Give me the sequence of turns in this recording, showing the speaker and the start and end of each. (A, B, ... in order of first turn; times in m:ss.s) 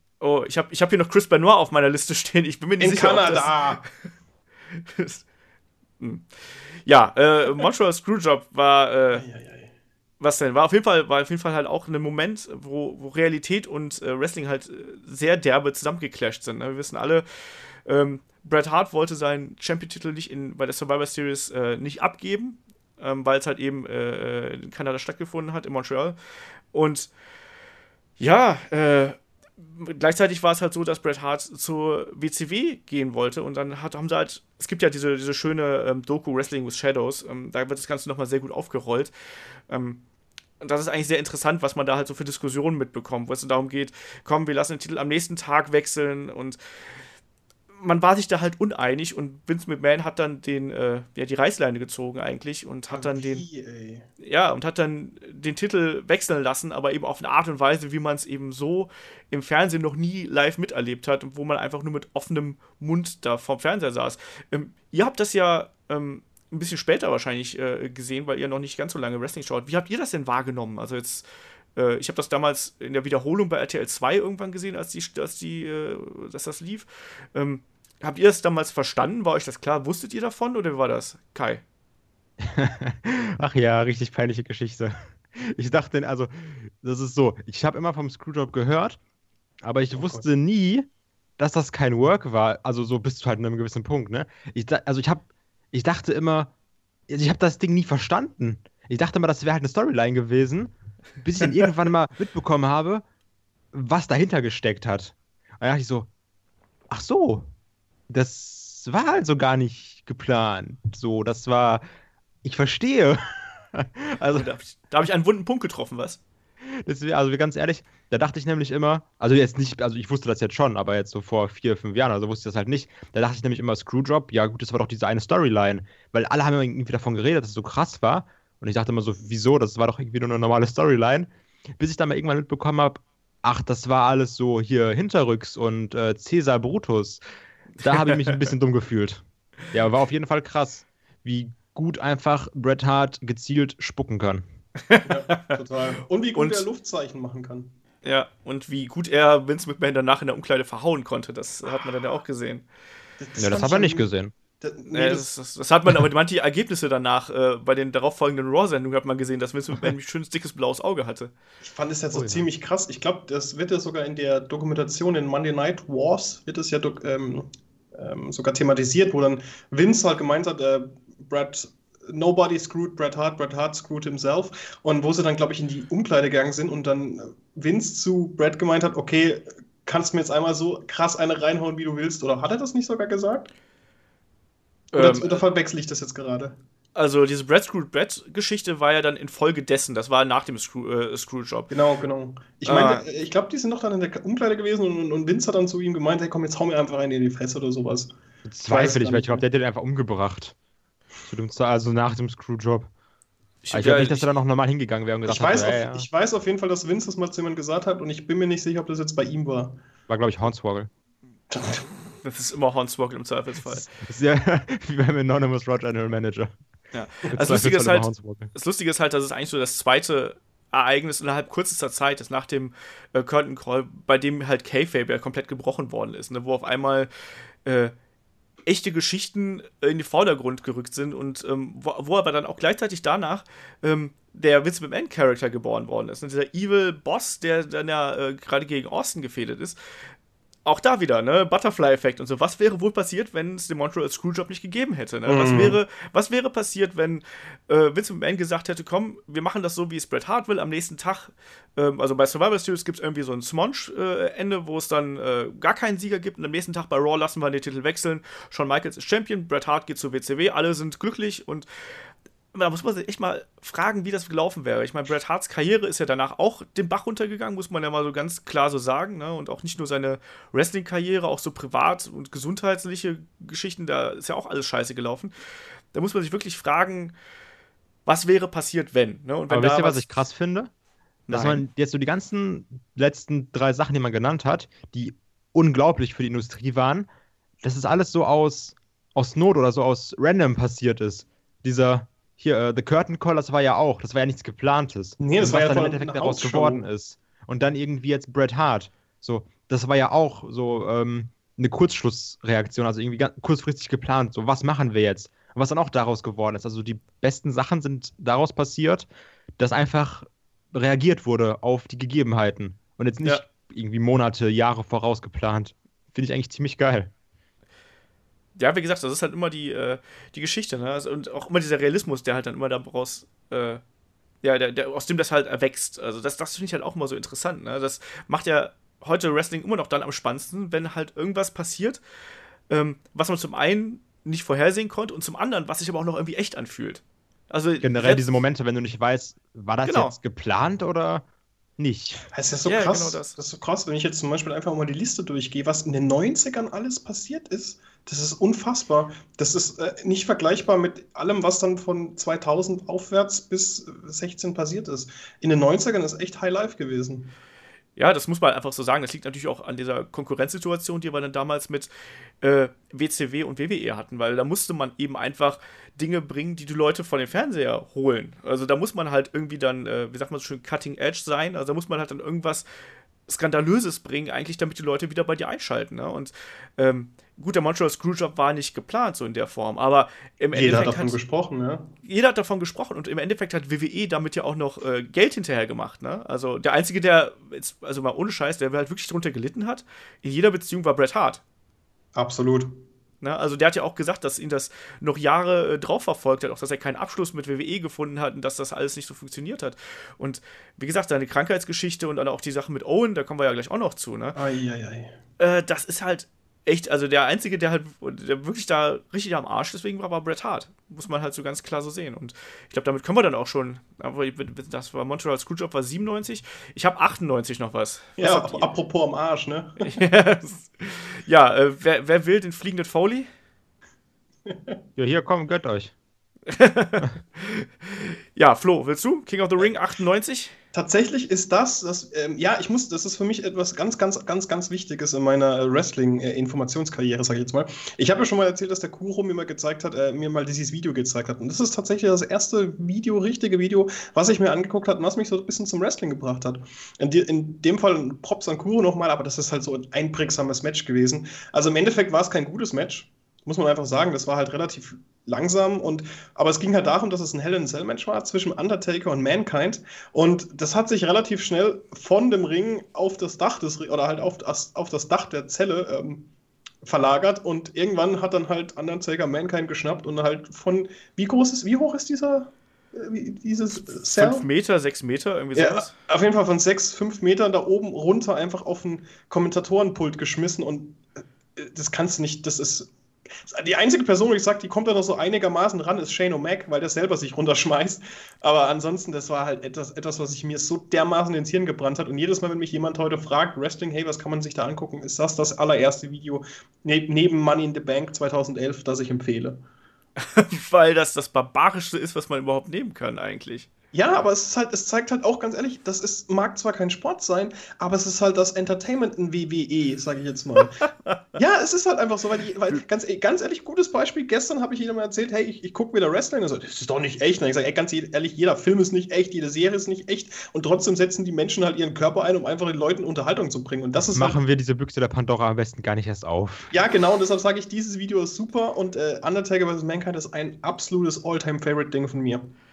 0:00.2-0:03.9 A
0:02.8-0:03.8 B
0:04.7-0:05.2 A
0:06.0-0:09.2 A
0:09.1-0:09.7 B
0:10.2-0:26.2 A
0:26.7-0:27.1 A
0:28.2-0:39.1 A
0:39.7-0:40.0 A
0:40.6-0:46.6 A
0:47.8-0:53.4 A
0:52.9-0:54.1 B
0:54.2-1:21.6 A
1:22.4-1:29.0 C
1:29.6-1:30.9 C
1:29.9-1:30.2 B
1:31.4-1:36.5 C
1:37.1-1:43.0 C
1:43.7-1:46.1 C
1:46.9-1:47.5 C
1:48.1-1:51.8 C
1:52.4-1:54.5 C
1:54.3-1:56.2 A
1:56.8-2:17.2 C
2:17.8-2:24.4 C
2:24.9-2:25.6 A
2:25.0-2:27.8 B
2:26.4-2:26.6 A
2:28.0-2:32.6 A
2:33.2-2:34.1 B
2:33.4-2:34.3 C
2:34.6-2:35.3 B
2:34.9-2:41.3 A
2:41.6-3:03.5 B
2:42.1-2:42.4 C
3:04.9-3:05.4 A
3:04.9-3:06.6 B
3:07.0-3:11.7 A
3:11.7-3:18.1 B
3:12.7-3:13.1 A
3:18.5-3:20.6 C
3:18.7-3:19.4 B
3:21.3-3:22.9 C
3:23.6-3:24.3 A
3:23.7-3:26.1 C
3:25.2-3:29.8 B
3:30.1-3:30.9 C
3:31.5-3:31.8 B
3:32.2-3:33.8 A
3:34.0-3:36.5 C
3:36.9-3:47.1 A
3:37.3-3:38.5 C
3:47.6-3:47.9 A
3:48.7-3:59.8 A
4:00.6-4:21.7 A
4:05.3-4:05.8 B
4:22.5-4:35.3 A
4:35.9-4:37.2 A
4:38.1-4:40.1 A
4:39.5-4:40.7 C
4:41.3-4:41.6 A
4:41.3-4:47.1 C
4:47.6-5:09.1 C
4:55.2-4:56.9 B
5:09.6-5:17.1 C
5:18.6-5:23.8 A
5:24.4-5:32.0 A
5:32.7-5:38.3 A
5:37.8-5:41.2 C
5:39.8-5:40.2 A
5:41.8-5:42.2 C
5:42.3-5:57.3 B
5:42.7-5:43.4 A
5:58.0-6:01.9 A
6:02.4-6:12.7 A
6:13.3-6:21.2 A
6:20.5-6:21.9 B
6:22.0-6:31.4 A
6:32.2-6:32.8 B
6:33.2-6:44.4 A
6:44.4-6:45.2 B
6:45.4-6:58.7 A
6:58.2-7:00.0 B
6:59.8-7:03.3 A
7:04.5-7:04.8 B
7:05.0-7:05.9 C
7:06.5-7:10.5 A
7:10.7-7:46.3 B
7:46.8-7:54.5 B
7:54.1-7:55.9 A
7:55.6-8:01.0 B
8:01.6-8:19.6 B
8:20.2-8:23.7 A
8:23.9-8:44.4 B
8:44.1-8:46.7 C
8:46.7-8:52.5 B